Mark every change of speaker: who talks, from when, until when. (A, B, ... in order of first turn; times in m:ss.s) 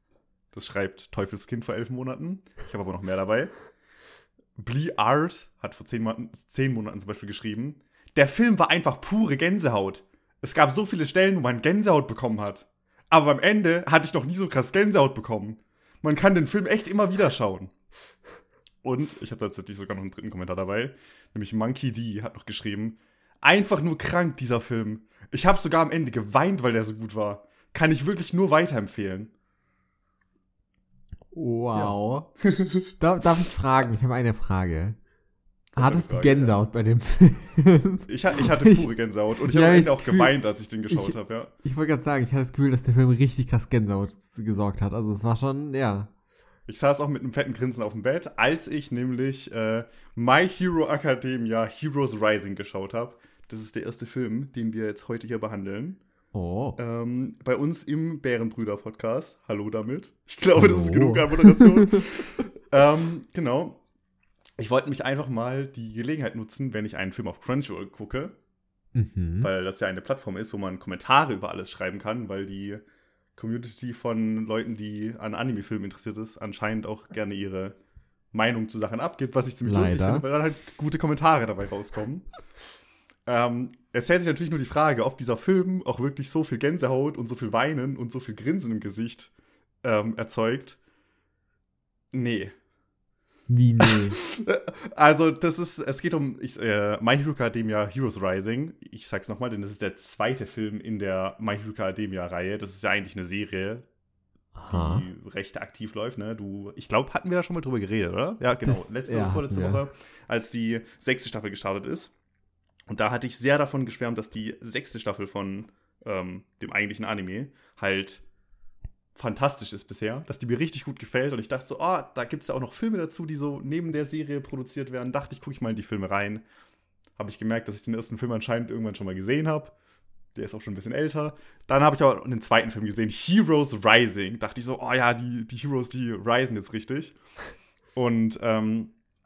0:00.5-0:03.5 A
0:04.6-0:17.7 A
0:18.8-0:29.3 A
0:31.3-0:32.3 B
0:31.7-0:32.9 A
0:33.0-0:35.0 B
0:35.7-0:36.6 A
0:35.8-0:38.9 B
0:38.1-0:41.5 A
0:39.4-0:40.4 B
0:40.9-0:46.1 B
0:46.7-0:56.0 A
0:56.3-0:56.8 B
0:56.8-1:03.8 A
1:00.6-1:02.2 B
1:04.6-1:08.3 A
1:08.9-1:09.5 B
1:09.4-1:12.8 A
1:13.4-1:17.7 A
1:18.3-1:22.3 A
1:19.6-1:20.2 B
1:23.2-1:29.3 A
1:29.8-1:30.8 A
1:32.1-1:32.5 A
1:33.5-1:34.2 B
1:33.8-1:43.8 A
1:44.6-1:45.0 B
1:44.7-1:52.1 A
1:48.6-1:49.8 B
1:52.9-1:58.2 A
1:59.1-2:06.4 A
2:07.2-2:09.7 A
2:10.3-2:17.2 A
2:17.9-2:18.9 A